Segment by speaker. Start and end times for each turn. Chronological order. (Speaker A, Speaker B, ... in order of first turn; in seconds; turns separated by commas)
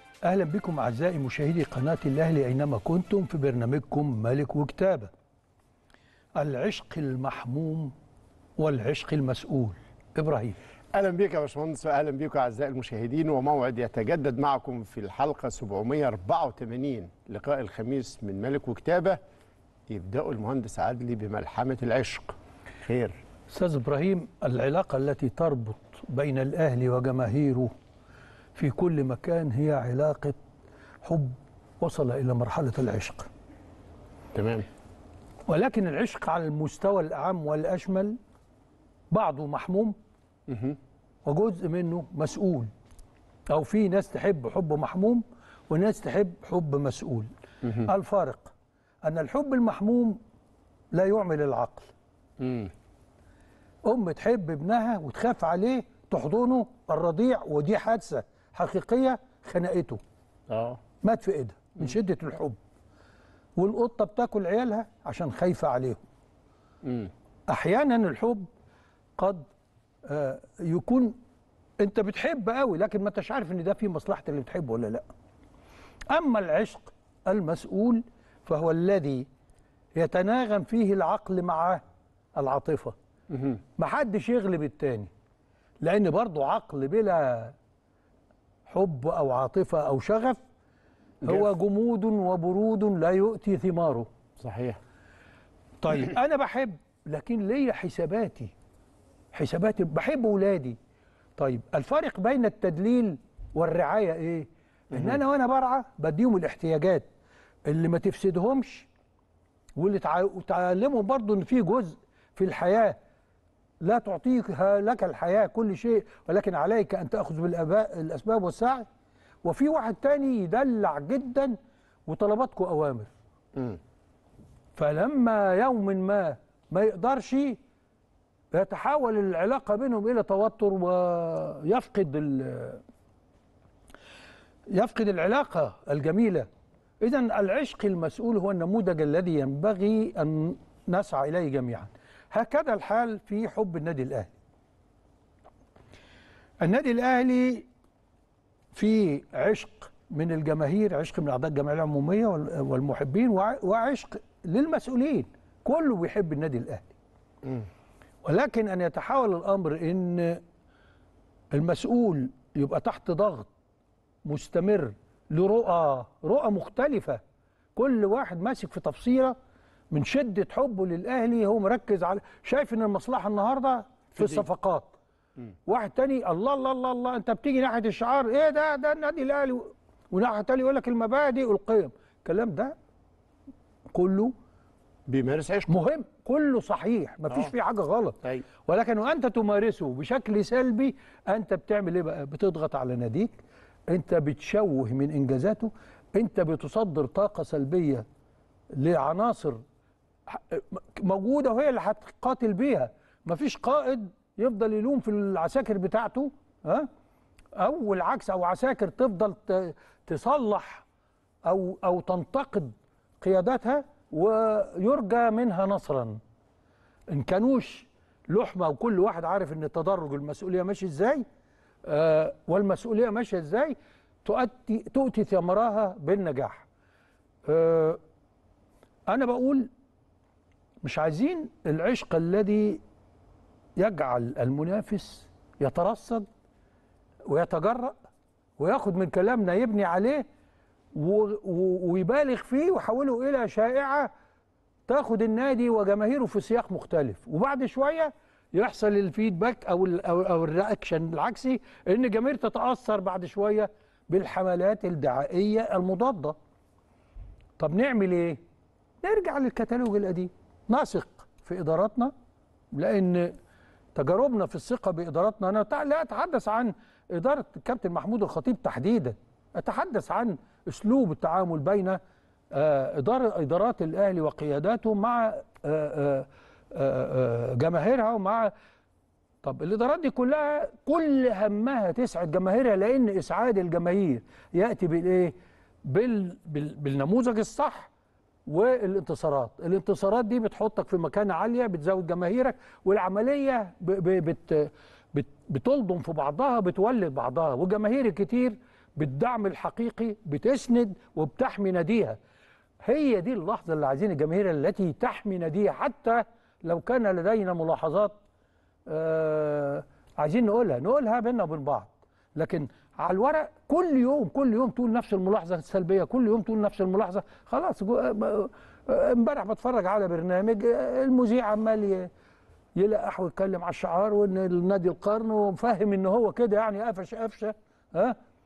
Speaker A: 0.2-5.1, Speaker A: 6.4-7.9, Speaker A: 8.6-10.6, Speaker B: 10.9-19.2, Speaker B: 19.9-23.2, Speaker A: 23.5-27.7, Speaker A: 28.6-30.4, Speaker A: 31.0-33.3, Speaker B: 34.3-34.7, Speaker A: 35.5-38.2, Speaker A: 39.1-40.0, Speaker B: 40.5-40.8, Speaker A: 41.3-42.7, Speaker A: 43.5-50.2, Speaker A: 50.9-51.9, Speaker B: 52.4-52.7, Speaker A: 53.9-60.0, Speaker B: 60.5-60.8, Speaker A: 61.0-62.6, Speaker A: 63.6-66.0, Speaker B: 66.8-67.1, Speaker A: 67.5-68.5, Speaker A: 69.2-69.5, Speaker A: 70.1-71.2, Speaker A: 71.8-75.0, Speaker A: 76.1-79.3, Speaker A: 80.0-81.8, Speaker A: 82.4-83.0, Speaker B: 83.3-83.6, Speaker A: 83.8-85.1, Speaker A: 85.8-87.5, Speaker A: 88.7-90.4, Speaker A: 91.2-94.1, Speaker B: 94.4-94.8, Speaker A: 95.8-98.5, Speaker A: 99.3-100.8, Speaker A: 101.4-107.1, Speaker B: 104.9-105.2, Speaker A: 107.7-108.9, Speaker A: 109.8-113.0, Speaker A: 113.8-118.9, Speaker A: 119.4-121.6, Speaker A: 122.1-123.1, Speaker A: 124.8-127.6, Speaker A: 128.5-132.8, Speaker A: 134.7-136.5, Speaker A: 137.0-144.3, Speaker A: 146.6-147.7, Speaker A: 148.7-156.9, Speaker A: 158.2-160.4, Speaker A: 161.5-163.5, Speaker A: 164.2-167.2, Speaker A: 167.8-169.3, Speaker A: 169.9-174.9, Speaker B: 174.1-174.5, Speaker A: 175.7-182.8, Speaker A: 183.9-184.3, Speaker B: 185.1-185.7, Speaker A: 185.7-193.4, Speaker A: 193.9-198.1, Speaker A: 198.7-199.6, Speaker A: 200.3-206.9, Speaker A: 207.6-210.8, Speaker A: 211.5-216.2, Speaker A: 217.1-221.2, Speaker A: 221.9-226.7, Speaker A: 227.5-228.0, Speaker A: 229.1-229.7, Speaker A: 230.8-232.8, Speaker A: 233.8-236.3, Speaker A: 237.3-238.0, Speaker A: 238.6-240.2, Speaker A: 240.9-244.1, Speaker A: 244.9-256.4, Speaker A: 257.6-258.4, Speaker A: 259.0-262.1, Speaker A: 262.7-263.3, Speaker A: 263.9-272.0, Speaker A: 272.5-278.5, Speaker A: 279.4-287.9, Speaker A: 288.5-302.2, Speaker A: 302.8-308.2, Speaker A: 308.9-322.1, Speaker A: 322.8-328.2